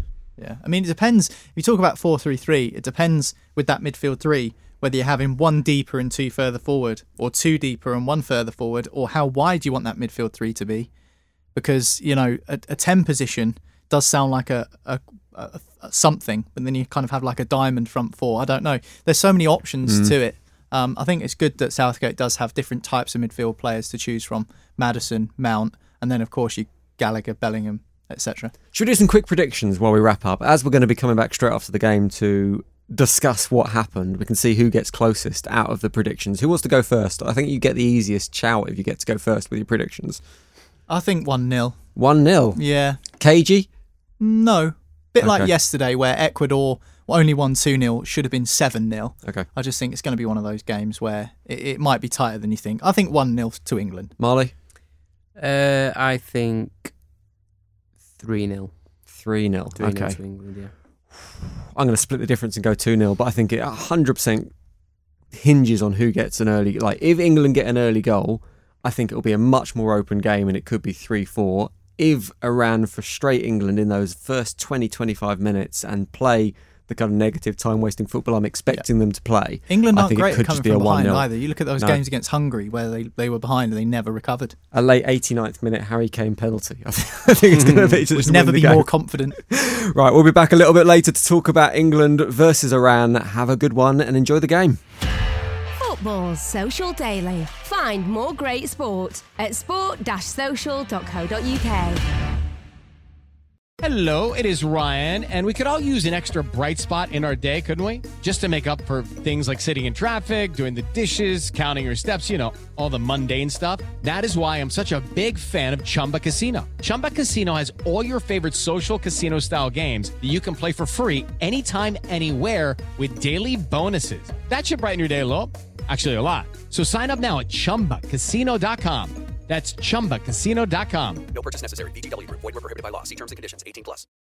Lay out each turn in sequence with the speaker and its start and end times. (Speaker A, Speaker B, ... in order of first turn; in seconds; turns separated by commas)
Speaker A: 0.4-10.9, Speaker A: 11.6-28.5, Speaker B: 19.9-20.1, Speaker B: 28.7-40.2, Speaker A: 40.9-41.8, Speaker B: 42.0-43.7, Speaker A: 42.6-43.0, Speaker A: 44.2-54.1, Speaker B: 45.2-45.5, Speaker B: 54.2-54.5, Speaker C: 55.4-57.0, Speaker C: 58.2-58.7, Speaker B: 59.1-60.2, Speaker C: 59.8-60.7, Speaker B: 61.7-64.5, Speaker B: 65.3-82.0, Speaker A: 79.7-84.6, Speaker B: 84.7-94.8, Speaker C: 87.6-87.8, Speaker A: 88.1-89.4, Speaker D: 95.8-102.0, Speaker E: 103.8-131.2, Speaker F: 131.3-134.1